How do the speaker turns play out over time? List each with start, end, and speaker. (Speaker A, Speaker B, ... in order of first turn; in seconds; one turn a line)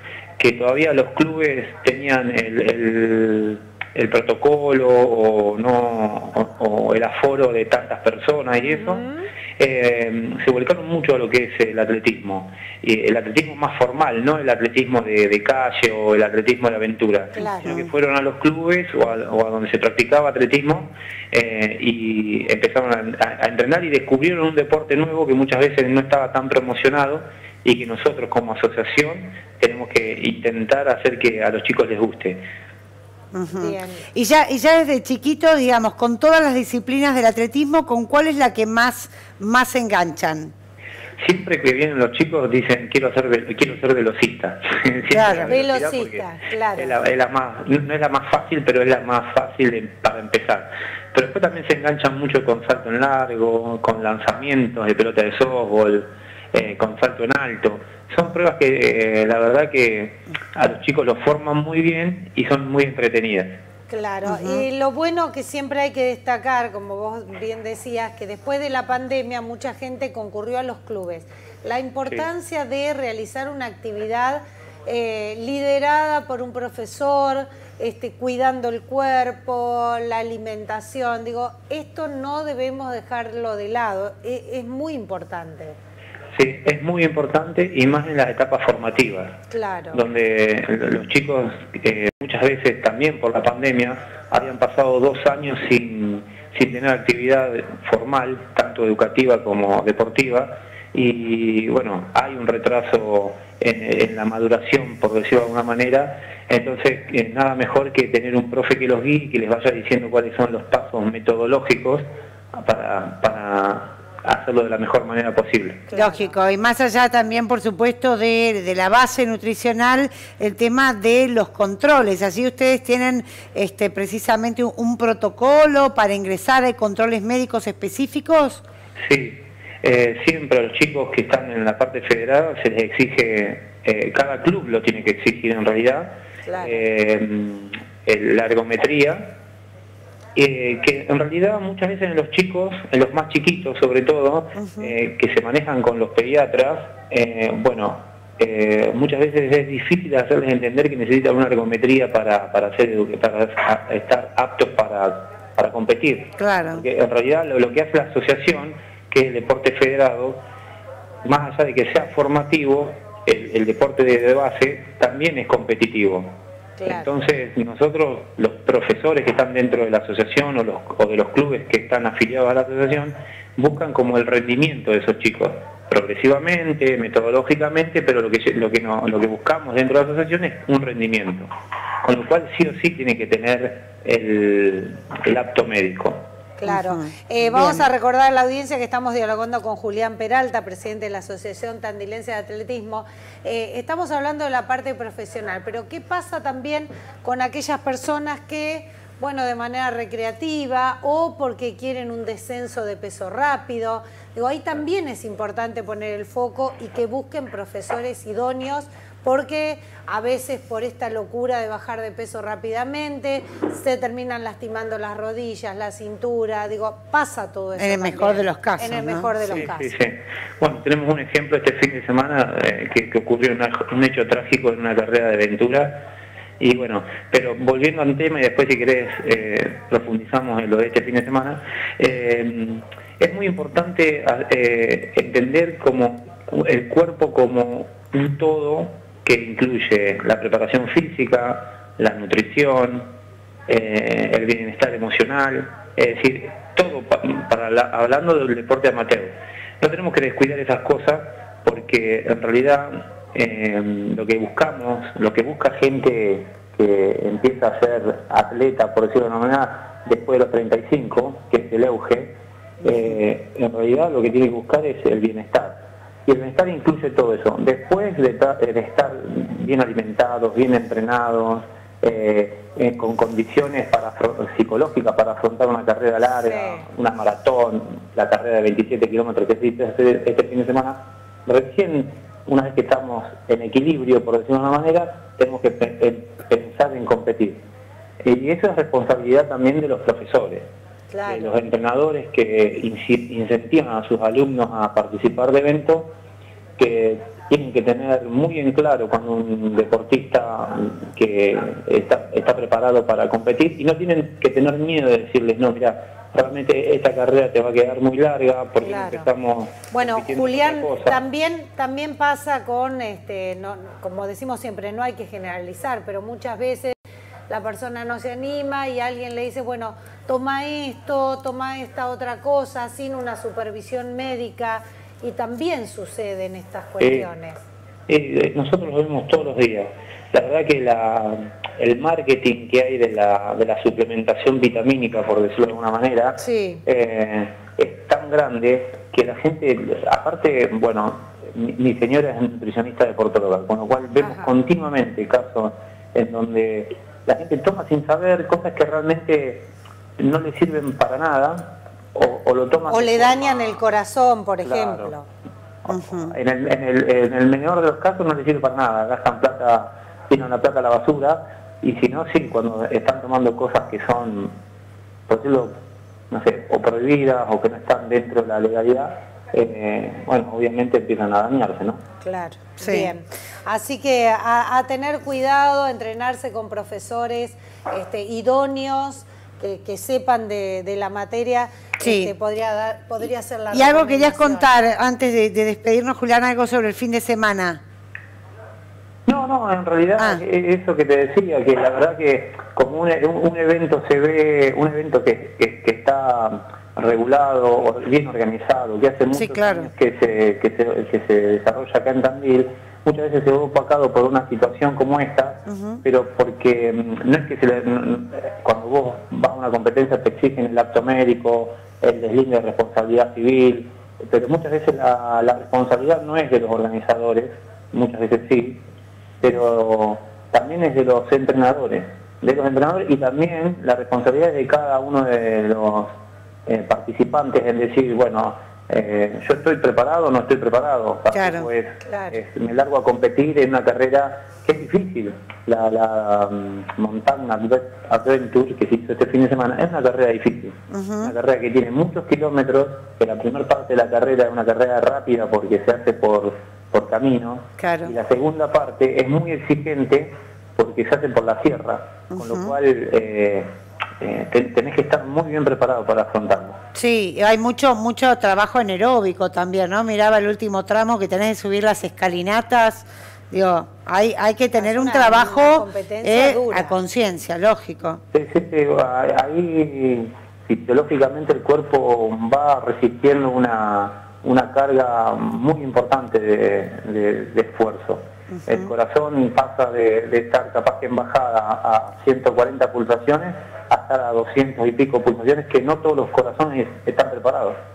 Speaker A: 0.4-9.0
Speaker B: 8.6-9.3
Speaker A: 9.6-32.4
Speaker B: 17.4-17.9
Speaker C: 33.3-40.5
Speaker B: 33.5-34.0
Speaker A: 41.2-46.2
Speaker C: 45.1-45.5
Speaker B: 45.5-47.0
Speaker A: 46.8-63.6
Speaker B: 63.9-85.8
Speaker C: 64.3-64.7
Speaker A: 86.3-89.4
Speaker B: 89.5-90.0
Speaker A: 89.9-115.8
Speaker B: 115.9-116.3
Speaker C: 115.9-128.6
Speaker A: 129.0-139.3
Speaker B: 136.5-136.8
Speaker A: 140.4-160.4
Speaker C: 144.6-144.9
Speaker C: 156.4-156.8
Speaker A: 161.2-166.3
Speaker B: 166.8-167.2
Speaker A: 166.9-181.5
Speaker A: 182.0-186.2
Speaker B: 186.6-219.9
Speaker C: 186.7-187.8
Speaker C: 217.8-219.3
Speaker A: 219.5-226.0
Speaker A: 226.6-243.1
Speaker A: 243.7-265.8
Speaker A: 266.3-287.6
Speaker B: 276.4-276.9
Speaker A: 288.2-290.7
Speaker B: 291.1-291.6
Speaker A: 291.3-296.1
Speaker A: 296.8-311.2
Speaker B: 308.8-309.3
Speaker B: 309.9-317.0
Speaker B: 317.5-327.6
Speaker A: 327.0-327.3
Speaker A: 328.1-349.7
Speaker B: 336.4-336.8
Speaker B: 344.2-344.5
Speaker A: 350.2-353.6
Speaker B: 352.9-355.3
Speaker A: 354.6-355.1
Speaker A: 355.9-364.5
Speaker C: 355.9-356.4
Speaker A: 365.3-365.8
Speaker A: 366.3-372.0
Speaker B: 372.2-384.7
Speaker C: 372.8-373.1
Speaker C: 382.0-382.3
Speaker C: 383.7-387.8
Speaker A: 389.3-418.8
Speaker C: 399.3-399.9
Speaker C: 405.7-406.0
Speaker A: 419.4-426.1
Speaker A: 426.7-453.7
Speaker C: 431.3-431.7
Speaker B: 432.1-432.4
Speaker C: 440.9-441.3
Speaker C: 447.8-448.1
Speaker C: 452.3-452.7
Speaker A: 454.2-456.8
Speaker C: 456.9-468.2
Speaker B: 464.8-466.9
Speaker A: 468.3-487.8
Speaker C: 478.5-478.9